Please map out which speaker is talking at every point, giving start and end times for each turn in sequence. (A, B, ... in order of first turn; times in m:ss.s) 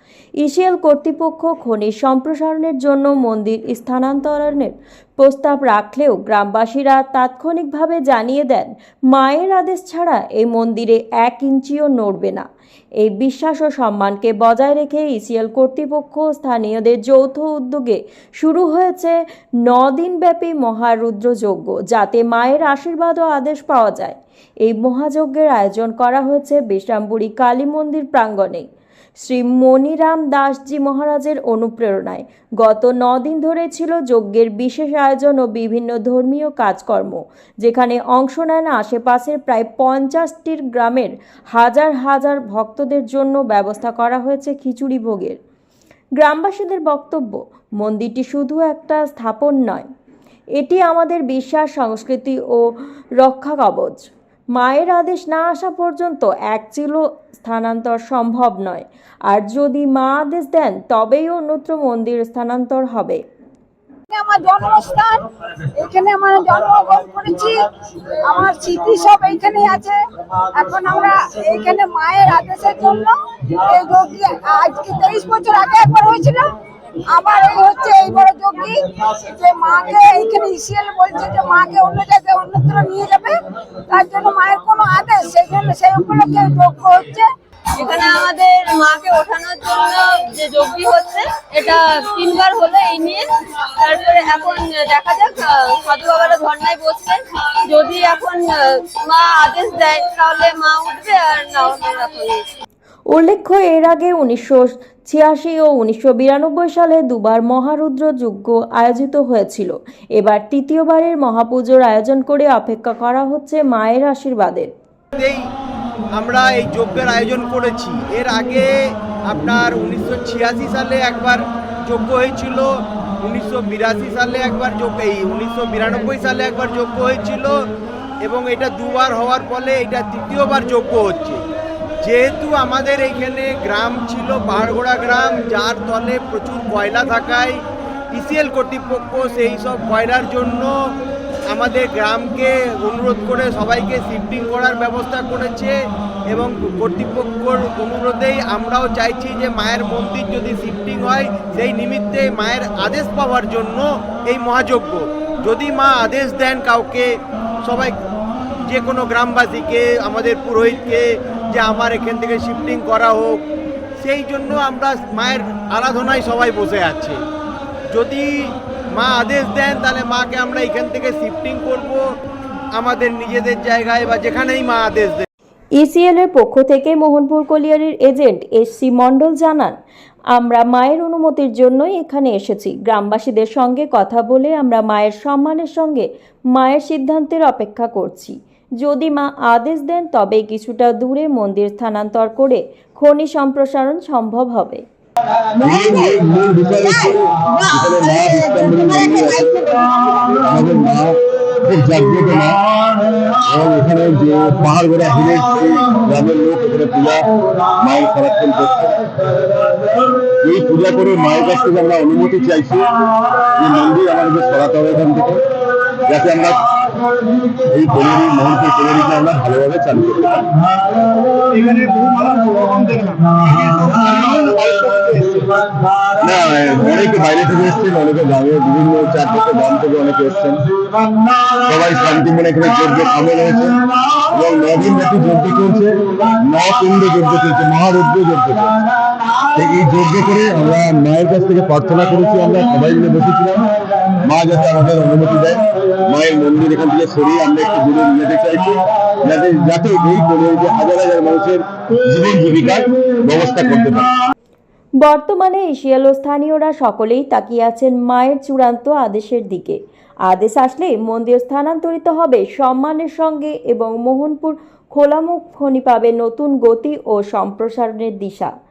0:00.4-0:12.5 A
0:13.0-0:28.7 A
0:29.2-0:45.4 A
0:46.2-0:49.9 A
0:50.6-0:52.6 A
0:53.2-1:03.2 A
1:04.1-1:05.2 B
1:05.8-1:07.7 B
1:08.2-1:10.0 B
1:10.5-1:16.5 B
1:17.1-1:23.4 B
1:23.9-1:27.3 B
1:27.8-1:33.2 C
1:33.8-1:42.5 C
1:43.1-1:54.7 A
1:55.2-1:55.4 D
1:56.2-1:58.7 D
1:59.3-2:02.7 D
2:03.2-2:07.6 D
2:08.2-2:11.4 D
2:12.0-2:17.6 D
2:18.1-2:20.7 D
2:21.5-2:25.7 D
2:26.3-2:37.1 D
2:37.6-2:38.0 D
2:38.7-2:43.4 D
2:44.0-2:47.2 D
2:47.9-2:48.3 D
2:49.0-2:52.0 D
2:52.8-2:55.3 D
2:55.8-2:59.8 A
3:00.3-3:14.8 A
3:15.6-3:19.7 E
3:17.6-3:18.1 B
3:18.8-3:19.8 B
3:20.4-3:22.6 E
3:23.4-3:27.3 E
3:27.8-3:29.1 E
3:30.4-3:32.9 E
3:33.5-3:35.4 E
3:36.0-3:36.7 E
3:37.6-3:40.4 E
3:41.6-3:44.0 F
3:46.2-3:50.7 E
3:51.6-3:53.8 E
3:54.3-3:58.8 E
3:59.5-4:14.1 E
4:15.0-4:28.5 A